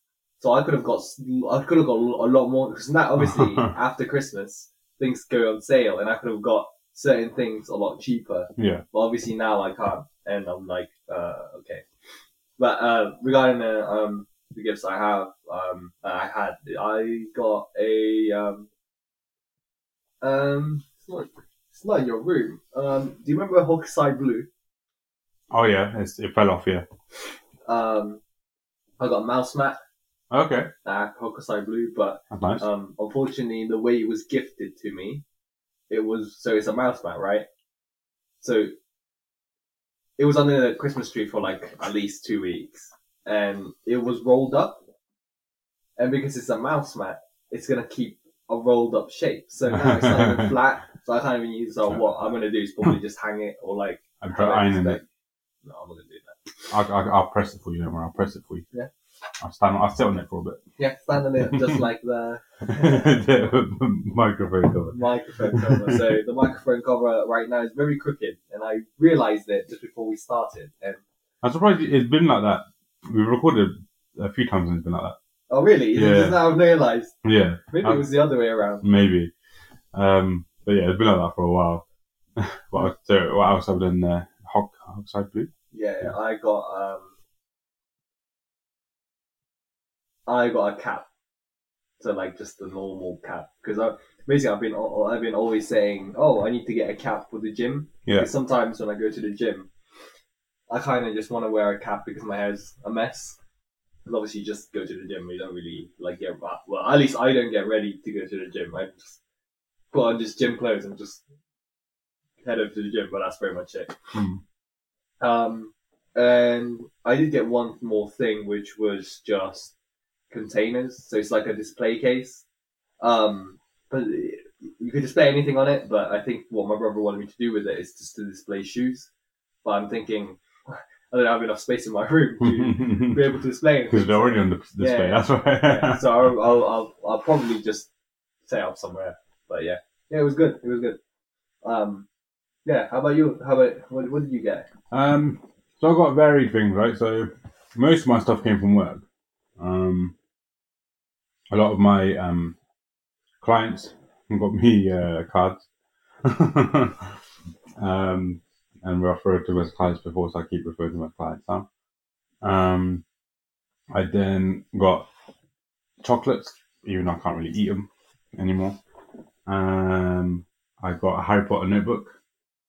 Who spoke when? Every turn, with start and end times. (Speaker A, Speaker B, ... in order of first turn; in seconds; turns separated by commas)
Speaker A: 0.4-11.8, Speaker B: 3.2-3.7, Speaker B: 8.6-8.8, Speaker A: 12.6-18.7, Speaker A: 20.2-24.5, Speaker B: 25.5-26.9, Speaker A: 27.6-28.2, Speaker A: 29.0-29.8, Speaker B: 30.3-30.7, Speaker A: 30.8-35.2, Speaker B: 32.3-32.6, Speaker A: 35.9-37.5, Speaker A: 38.4-38.7, Speaker A: 40.2-44.8, Speaker A: 46.0-55.0, Speaker B: 49.7-50.5, Speaker B: 54.2-55.0, Speaker A: 55.6-56.7, Speaker B: 56.7-58.6, Speaker B: 59.4-60.6, Speaker A: 60.8-63.5, Speaker B: 61.4-61.8, Speaker B: 62.6-66.2, Speaker A: 64.9-71.0, Speaker B: 71.4-75.2, Speaker A: 75.5-77.1, Speaker B: 75.9-76.5, Speaker B: 77.2-78.0, Speaker A: 77.7-78.8, Speaker B: 78.8-79.3, Speaker B: 79.9-81.8, Speaker B: 82.3-85.5, Speaker A: 85.7-87.1, Speaker A: 90.3-91.0, Speaker A: 92.0-99.7, Speaker A: 100.7-103.4, Speaker A: 104.0-109.2, Speaker A: 109.9-111.2, Speaker A: 112.4-114.0, Speaker B: 114.1-114.4, Speaker A: 115.2-119.7, Speaker A: 120.3-122.4, Speaker A: 123.0-129.1, Speaker A: 129.6-137.9, Speaker B: 132.4-133.3, Speaker B: 133.9-136.3, Speaker A: 138.5-141.0, Speaker A: 141.6-142.1, Speaker A: 142.6-144.7, Speaker B: 144.9-149.0, Speaker B: 149.6-150.1, Speaker B: 151.5-152.6, Speaker B: 153.4-155.7, Speaker B: 156.2-157.1, Speaker B: 157.8-161.7, Speaker B: 162.4-163.0, Speaker B: 163.9-165.1, Speaker B: 166.0-168.8, Speaker B: 169.4-172.2